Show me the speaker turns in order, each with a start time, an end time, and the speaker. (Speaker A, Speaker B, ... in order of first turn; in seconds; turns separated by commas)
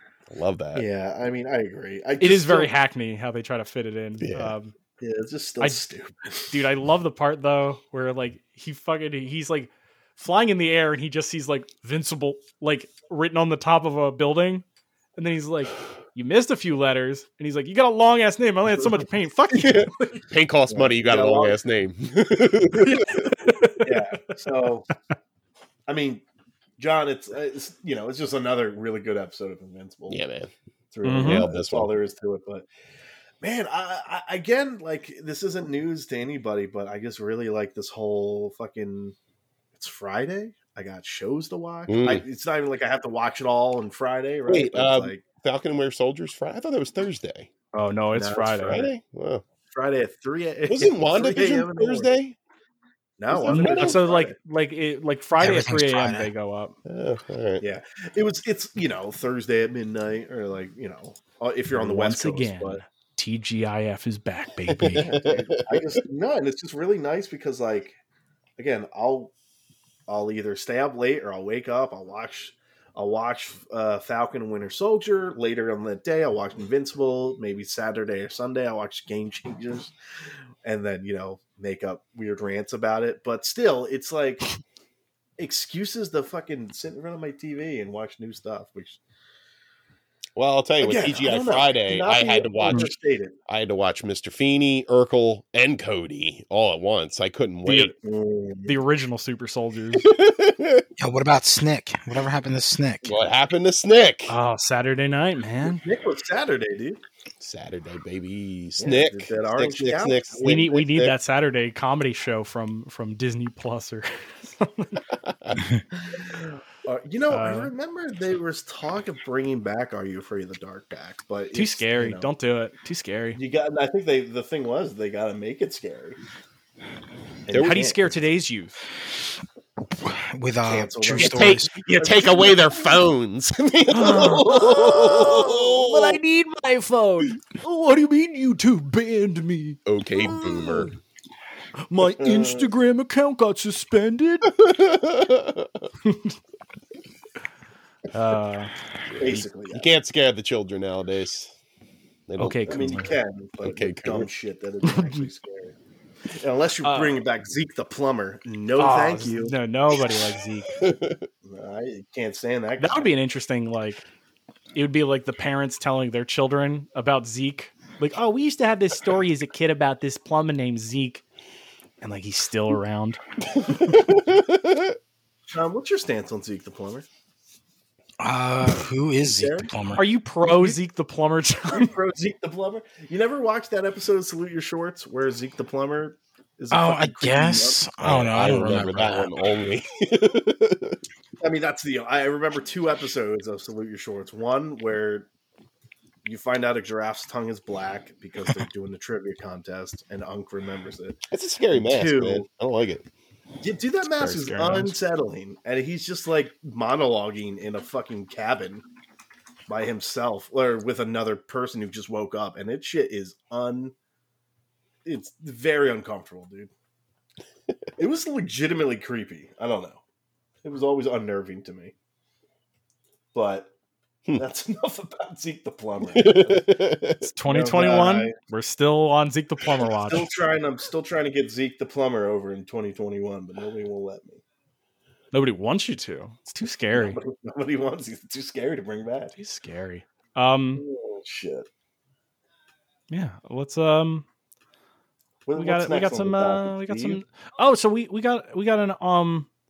Speaker A: 0.3-0.8, Speaker B: 0.7-2.7, Speaker C: 2.2-4.7, Speaker A: 4.2-4.5, Speaker B: 5.0-6.5, Speaker C: 6.5-14.6, Speaker C: 15.2-20.2, Speaker A: 19.5-23.4, Speaker B: 20.7-21.6, Speaker C: 22.8-24.1, Speaker B: 23.8-24.9, Speaker B: 25.9-26.2, Speaker B: 26.8-30.2, Speaker A: 30.1-30.5, Speaker B: 30.9-32.6, Speaker C: 31.0-31.5, Speaker A: 31.1-31.9, Speaker B: 33.4-39.1, Speaker B: 39.7-45.2, Speaker A: 41.9-42.2, Speaker A: 44.5-47.5, Speaker C: 47.7-48.9, Speaker B: 48.1-48.9, Speaker A: 48.6-49.4, Speaker B: 49.7-52.1, Speaker A: 50.7-52.4, Speaker B: 53.2-54.3, Speaker A: 53.3-54.0, Speaker C: 53.5-56.8, Speaker D: 55.4-56.3, Speaker A: 56.9-57.6, Speaker B: 57.6-62.8, Speaker C: 61.7-65.1, Speaker A: 64.7-66.0, Speaker B: 64.9-68.0, Speaker B: 68.6-69.3, Speaker B: 70.1-79.9, Speaker B: 80.6-84.5, Speaker B: 85.4-89.0, Speaker A: 90.3-92.9, Speaker B: 90.8-93.3, Speaker A: 93.5-97.9, Speaker C: 97.7-97.9, Speaker B: 98.0-98.8, Speaker C: 98.7-100.1, Speaker A: 100.0-100.8, Speaker D: 101.0-103.2, Speaker A: 103.0-104.3, Speaker C: 104.3-105.8, Speaker B: 105.6-107.0, Speaker A: 107.4-111.1, Speaker B: 108.8-110.7, Speaker C: 110.4-115.0, Speaker A: 115.1-115.6, Speaker B: 115.9-122.3, Speaker C: 117.3-117.7, Speaker C: 121.5-123.4, Speaker B: 123.3-126.2, Speaker B: 127.5-128.1, Speaker A: 127.5-127.8, Speaker C: 127.5-128.8, Speaker D: 130.0-131.7, Speaker B: 130.7-132.8, Speaker A: 131.2-136.2, Speaker C: 133.9-140.9, Speaker B: 134.1-135.6, Speaker A: 139.8-140.9, Speaker C: 141.8-144.5, Speaker B: 142.2-142.7, Speaker A: 144.5-145.7, Speaker C: 146.0-146.4, Speaker C: 148.1-148.7, Speaker B: 149.2-149.9, Speaker A: 149.2-151.5, Speaker A: 152.3-153.1, Speaker C: 152.4-153.1, Speaker B: 152.7-155.7, Speaker A: 153.6-154.3, Speaker C: 154.8-155.2, Speaker B: 156.3-159.6, Speaker C: 156.8-157.2, Speaker C: 158.8-160.8, Speaker A: 160.7-161.3, Speaker B: 161.4-163.1, Speaker C: 162.8-164.0, Speaker C: 164.7-171.2, Speaker C: 172.0-173.2, Speaker A: 173.6-175.0, Speaker B: 175.5-177.1, Speaker D: 178.2-180.0, Speaker B: 179.2-179.7, Speaker C: 179.9-181.9, Speaker B: 180.5-180.8, Speaker B: 181.7-188.8, Speaker D: 186.7-189.3, Speaker A: 188.0-191.0, Speaker B: 191.4-195.3, Speaker B: 196.2-201.2, Speaker A: 201.3-203.1, Speaker B: 201.7-202.4, Speaker B: 203.6-208.8, Speaker C: 204.1-204.9, Speaker B: 209.7-213.9, Speaker B: 215.0-216.7, Speaker B: 218.0-220.0, Speaker B: 220.6-221.9, Speaker B: 223.3-223.7, Speaker B: 224.3-226.7, Speaker A: 226.0-227.3, Speaker C: 227.2-230.3, Speaker B: 227.4-228.3, Speaker B: 230.0-234.4, Speaker C: 235.3-237.2, Speaker B: 236.9-239.3, Speaker C: 239.3-240.8, Speaker B: 240.8-241.7, Speaker C: 243.1-244.2, Speaker B: 245.4-247.2, Speaker C: 245.6-249.5